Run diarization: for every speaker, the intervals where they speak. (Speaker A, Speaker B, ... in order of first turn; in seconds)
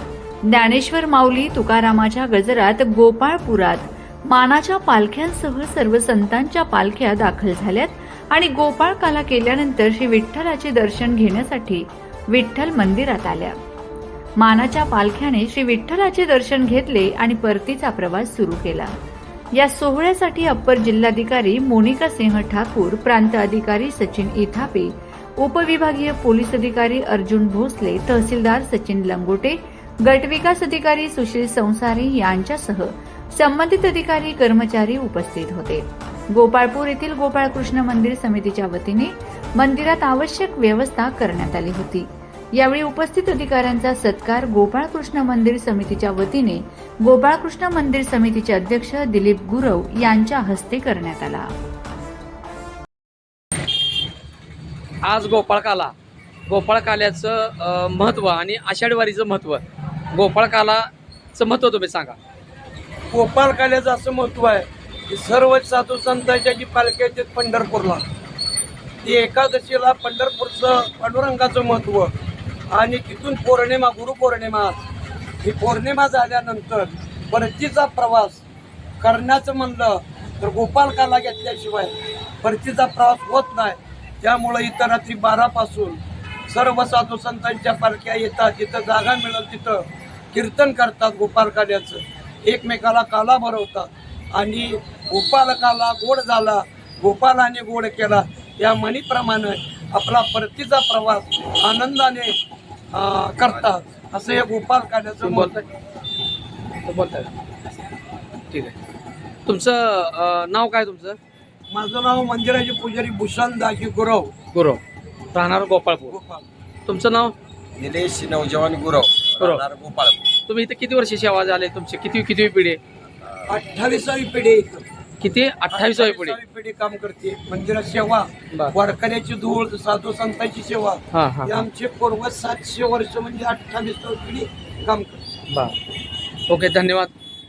Speaker A: 0.4-13.6, 14.4-18.9, 19.5-51.5
Speaker B: 55.0-55.9, 56.5-59.6, 60.1-62.2, 105.2-105.6, 106.8-107.3, 109.5-111.2, 114.5-114.8, 115.3-116.1, 116.9-117.3, 119.4-119.6, 120.5-122.8, 125.2-126.4, 131.1-131.6, 136.5-137.1
Speaker C: 63.1-68.0, 69.0-72.1, 72.7-74.8, 75.4-78.4, 79.0-102.4, 102.9-105.6, 111.7-114.3, 116.1-116.5, 123.5-124.8, 125.7-135.2
Speaker D: 117.8-120.2